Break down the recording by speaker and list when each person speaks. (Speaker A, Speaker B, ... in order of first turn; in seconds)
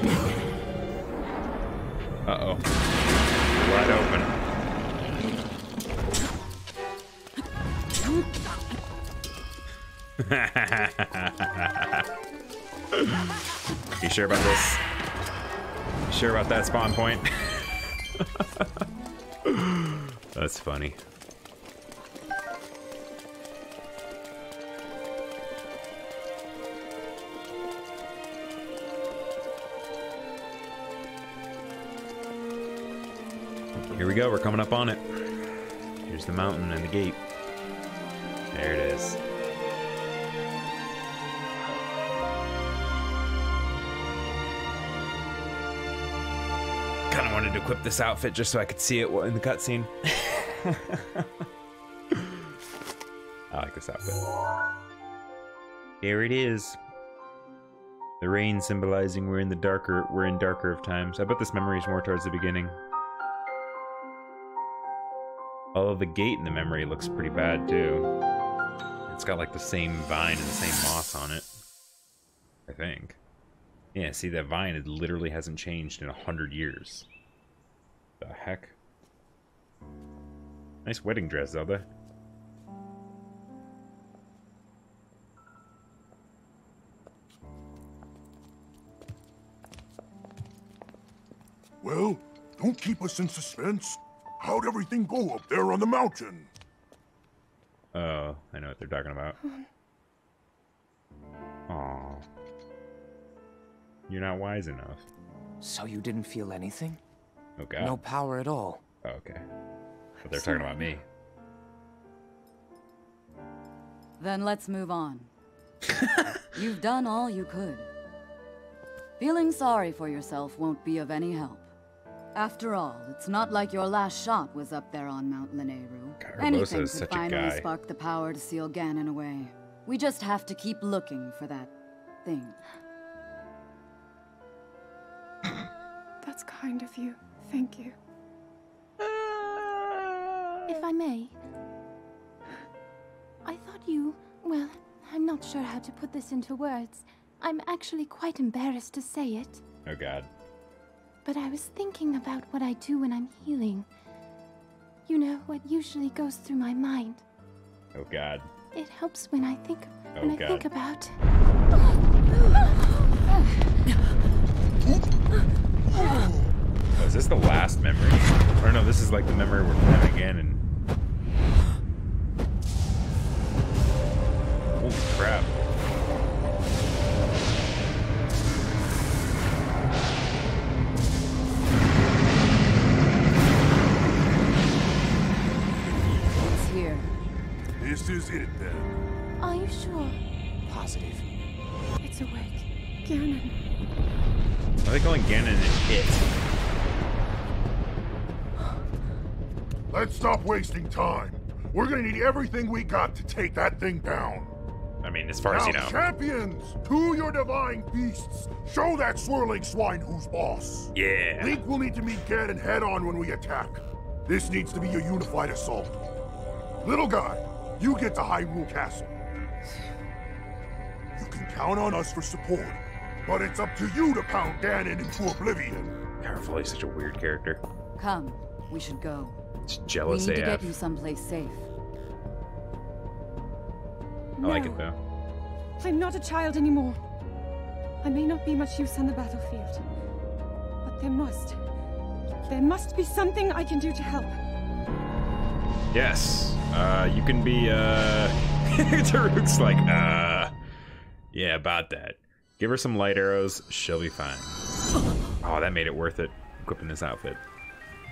Speaker A: 2.2-2.6, 3.5-4.3, 10.2-12.0, 12.9-13.4, 14.0-14.8, 16.1-18.8, 19.4-21.0, 33.9-37.2, 38.5-39.2, 47.1-51.3, 53.5-54.2, 56.0-56.8, 58.2-62.8, 65.7-68.1, 69.1-71.5, 72.7-73.2, 73.9-77.1, 78.2-78.8, 80.8-81.9, 97.9-99.4, 101.7-102.2, 104.1-105.0, 107.6-108.0, 109.0-109.4, 110.2-111.0, 126.2-127.7, 139.2-140.7, 149.9-150.3, 157.9-158.5, 160.1-160.7, 167.0-170.6, 174.8-175.6, 194.8-196.3, 205.0-206.0, 210.9-211.6, 226.2-227.6, 229.7-230.8, 234.4-235.0, 245.9-250.5, 251.3-254.6, 255.4-257.4
Speaker B: 91.8-96.5, 187.8-188.9, 199.9-204.5, 205.4-215.9, 216.8-219.1, 221.2-225.9
Speaker C: 105.6-107.0, 107.8-108.8, 190.7-191.2
Speaker D: 114.2-115.3, 116.5-117.9, 119.2-121.7, 122.3-131.7, 132.2-132.6, 186.4-187.1, 228.0-229.4, 230.0-231.7
Speaker E: 136.2-137.7, 140.7-141.4, 143.4-149.6, 151.2-153.9, 155.1-157.2, 158.7-161.2, 189.4-190.2
Speaker F: 136.8-137.9, 192.0-193.5, 234.4-234.8, 235.8-237.0, 238.0-239.8, 240.8-241.6, 242.4-244.3